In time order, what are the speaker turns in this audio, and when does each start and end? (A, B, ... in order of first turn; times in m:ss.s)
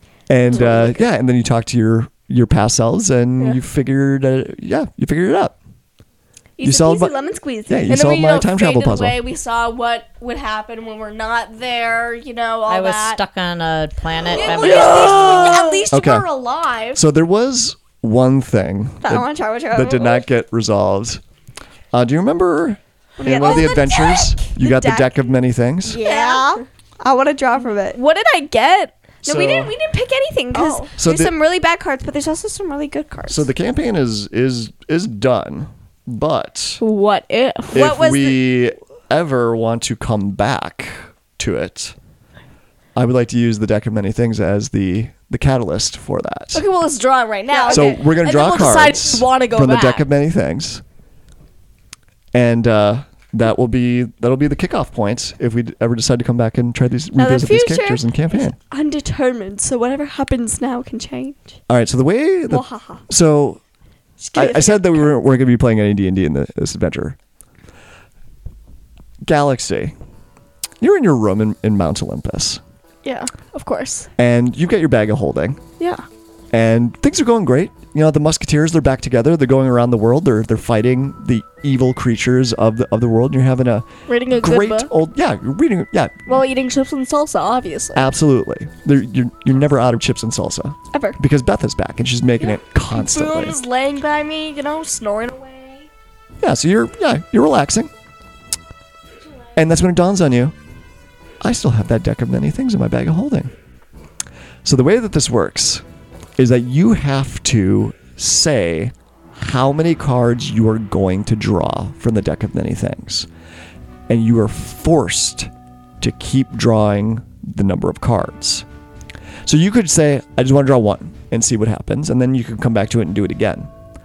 0:00.3-0:05.6 A
0:00.5-0:00.9 B
0:00.5-0:01.0 C
0:06.6-0:08.0 B
0:06.6-0:07.2 A
0:07.7-0:09.2 A
0:07.9-0:13.2 C
0:12.7-0:15.6 D
0:14.3-0:17.0 C
0:14.3-0:15.7 B
0:15.4-0:16.3 A
0:17.0-0:21.2 A
0:19.0-0:20.2 B
0:21.9-0:26.0 A
0:23.2-0:25.2 B
0:25.9-0:28.0 B
0:26.0-0:26.6 C
0:27.9-0:28.9 C
0:29.2-0:33.5 B
0:29.3-0:29.7 A
0:30.5-0:30.9 C
0:31.0-0:31.3 A
0:33.3-0:36.8 A
0:36.8-0:37.8 C
0:37.7-0:38.4 B
0:37.7-0:42.0 A
0:43.0-0:46.6 A
0:46.5-0:50.1 C
0:47.5-0:48.0 B
0:47.7-0:50.8 A
0:52.3-0:58.6 A
0:57.2-1:01.6 B
1:01.7-1:03.6 A
1:02.5-1:03.0 B
1:04.2-1:04.9 C
1:04.3-1:07.2 A
1:09.2-1:09.9 A
1:10.8-1:12.6 A
1:13.0-1:14.1 C
1:14.2-1:15.6 A
1:16.5-1:26.4 A
1:24.1-1:24.9 C
1:26.3-1:28.1 C
1:28.0-1:33.6 A
1:32.4-1:35.9 C
1:36.4-1:37.9 A
1:39.2-1:39.5 C
1:39.6-1:40.6 A
1:41.4-1:43.5 A
1:44.6-1:45.8 A
1:46.4-1:53.3 A
1:54.1-1:58.7 A
1:59.4-2:03.7 A